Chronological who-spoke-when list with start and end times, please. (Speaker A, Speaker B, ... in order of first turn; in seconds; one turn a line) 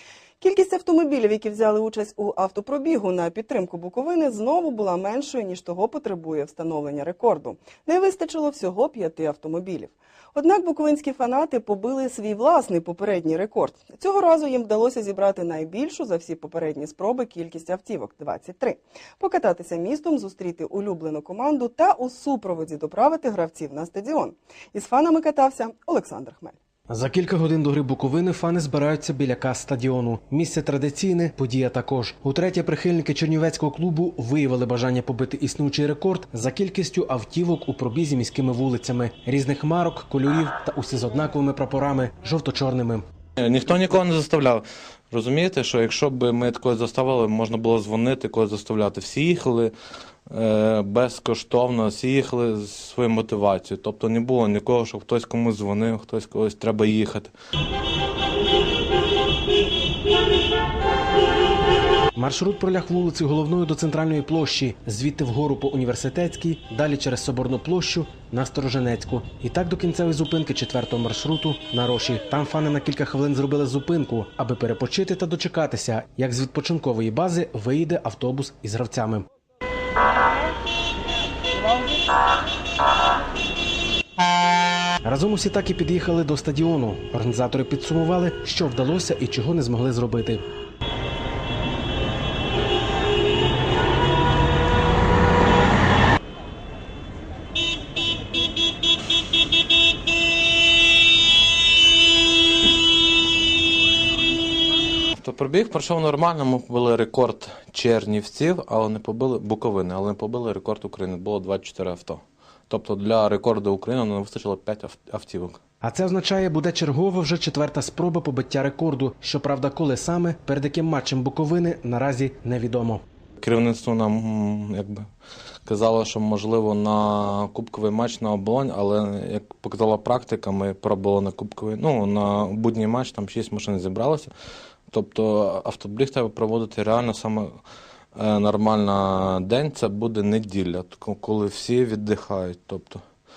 Speaker A: 0.4-26.6
Speaker B: 26.9-43.0
Speaker C: 43.4-49.7
Speaker C: 50.3-57.3
Speaker B: 62.1-79.3
Speaker B: 85.0-90.4
Speaker C: 105.1-115.6
Speaker B: 115.8-123.0
Speaker C: 123.4-125.0
Speaker C: 125.7-134.3
Speaker C: 134.9-137.5
Speaker C: 138.1-143.0